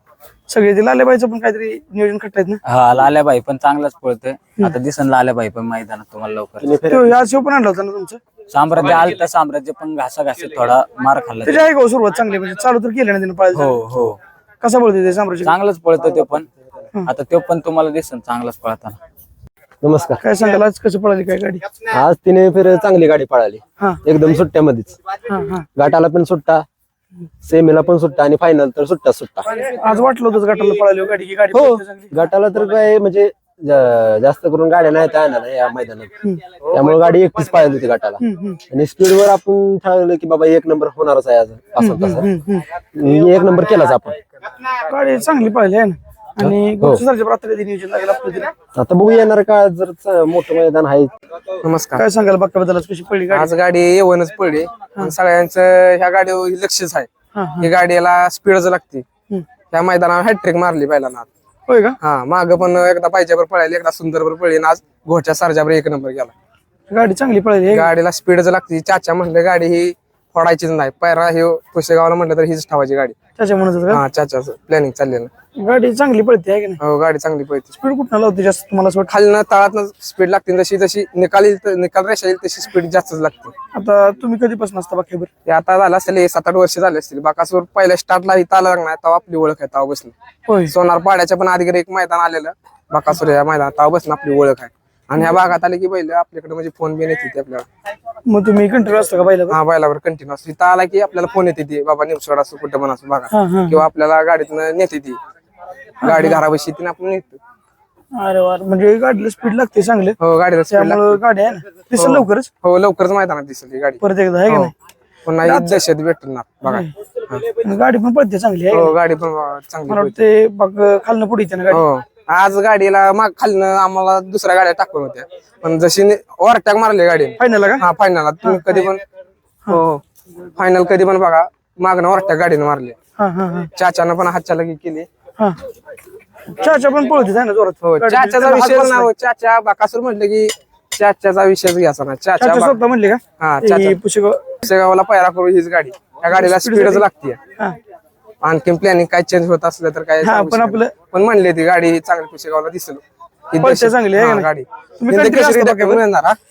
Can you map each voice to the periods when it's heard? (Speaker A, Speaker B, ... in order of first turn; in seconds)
Speaker A: 0.5-2.6, 6.9-8.2, 11.4-13.8, 14.6-15.5, 20.2-21.6, 25.3-25.7, 29.5-32.3, 38.2-38.6, 41.8-42.7, 44.8-48.5, 51.9-53.5, 57.3-57.7, 61.7-62.0, 66.9-67.9, 73.4-74.0, 75.5-76.8, 77.8-79.1, 83.7-85.3, 90.5-90.7, 98.2-99.6, 103.3-103.8, 106.0-106.4, 108.1-110.2, 110.7-112.5, 114.0-114.7, 115.4-115.8, 116.6-116.9, 117.5-118.9, 119.9-121.8, 127.4-127.8, 128.4-128.9, 133.2-133.7, 136.5-139.1, 142.4-144.6, 146.3-147.1, 150.2-150.9, 153.6-154.5, 155.0-156.0
Speaker B: 2.6-6.7, 8.5-11.7, 13.5-14.2, 15.4-16.5, 17.1-19.0
Speaker C: 6.6-7.2, 19.8-20.2, 21.9-25.0, 25.8-26.6, 27.4-29.5, 31.5-42.3, 42.9-44.2, 46.4-47.0, 48.8-51.1
Speaker D: 51.6-52.0, 53.3-57.1, 57.6-59.0, 59.7-61.3, 62.0-66.3, 67.7-73.2, 73.9-75.3, 76.8-77.7, 79.1-83.5, 85.5-90.1, 90.7-97.7, 99.5-105.2, 106.0-107.4, 110.2-111.2, 112.0-114.7, 115.2-117.4, 118.7-120.2, 121.7-129.0, 129.7-133.0, 133.8-135.1, 137.8-142.8, 143.4-144.0, 144.6-147.4, 148.4-156.4